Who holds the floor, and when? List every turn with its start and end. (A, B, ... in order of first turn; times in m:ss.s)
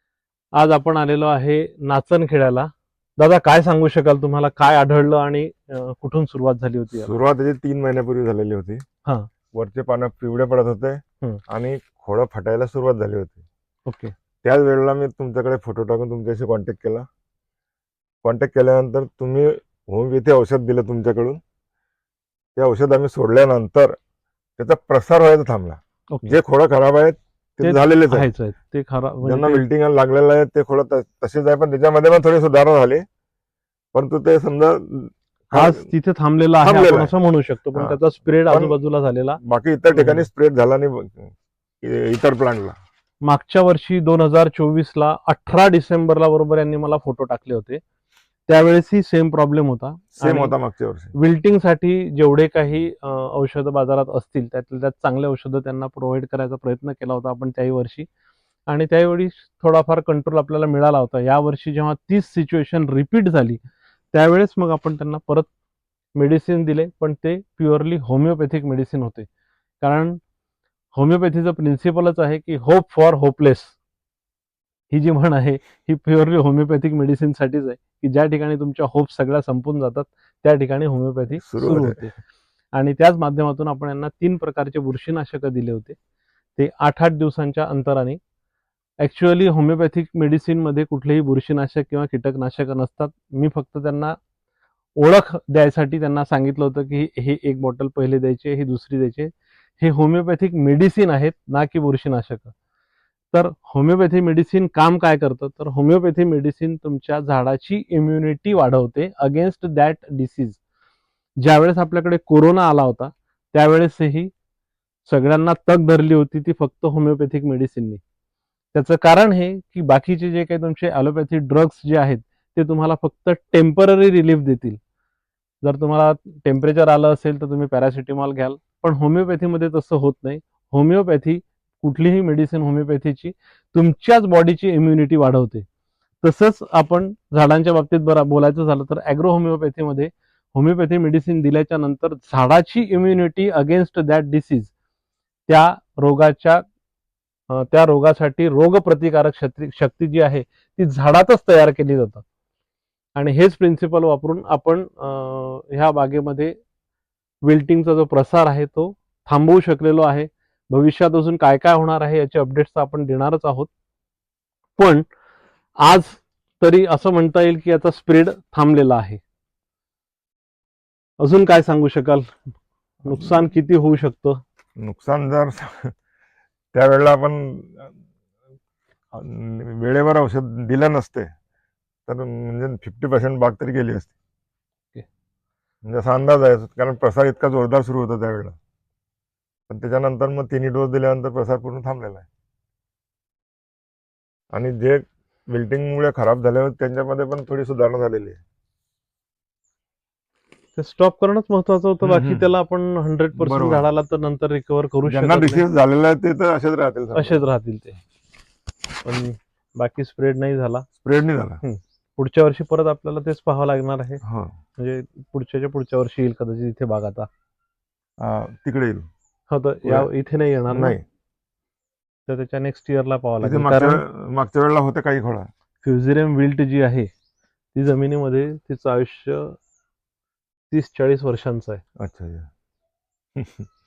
0:00.5-0:07.1 A
0:06.9-0:08.8 B
0:09.5-0:13.4 B
0:13.8-0:14.1 A
0:14.4-0:17.0 B
0:18.2-0:21.4 B
0:22.6-0:24.0 B
0:24.6-0:28.3 B
0:26.1-0:26.4 A
0:27.6-0:29.6 A
0:29.2-0:33.0 B
0:33.9-0:35.9 B
0:35.5-0:40.3 A
0:36.6-0:37.1 B
0:37.7-0:38.8 B
0:39.4-0:42.8 B
0:43.2-0:47.8 A
0:48.5-0:50.5 A
0:50.2-0:51.1 B
0:51.1-0:58.1 A
0:58.7-1:03.6 A
1:04.1-1:05.5 A
1:06.2-1:09.3 A
1:09.8-1:10.2 A
1:10.9-1:13.8 A
1:14.9-1:22.2 A
1:21.4-1:22.0 B
1:22.7-1:26.0 A
1:26.6-1:28.2 A
1:29.0-1:34.2 A
1:35.0-1:42.5 A
1:43.3-1:50.6 A
1:51.4-1:54.3 A
1:55.0-1:58.0 A
1:58.7-2:04.8 A
2:05.6-2:15.6 A
2:16.2-2:24.7 A
2:25.5-2:26.6 A
2:27.5-2:32.2 A
2:33.1-2:36.5 A
2:37.4-2:43.7 A
2:44.8-2:45.0 A
2:45.8-2:49.2 A
2:51.2-2:52.3 A
2:53.0-2:53.4 B
2:53.0-2:54.4 A
2:54.8-2:55.9 B
2:56.7-2:57.9 B
2:59.1-3:01.3 B
3:02.1-3:04.1 B
3:05.8-3:08.6 B
3:09.7-3:12.3 B
3:14.5-3:18.4 B
3:20.8-3:25.6 A
3:22.0-3:22.5 B
3:23.4-3:23.9 B
3:25.0-3:27.4 B
3:27.1-3:28.0 A
3:29.0-3:30.8 A
3:31.0-3:31.6 B
3:31.6-3:34.2 A
3:34.2-3:34.5 B
3:34.8-3:37.3 A
3:38.2-3:39.1 B
3:39.5-3:41.0 A
3:40.7-3:41.0 B
3:42.3-3:44.0 A
3:43.4-3:45.5 B
3:45.8-3:47.1 A
3:47.7-3:49.6 A
3:50.7-3:51.8 A
3:52.0-3:52.5 B
3:53.4-3:53.6 B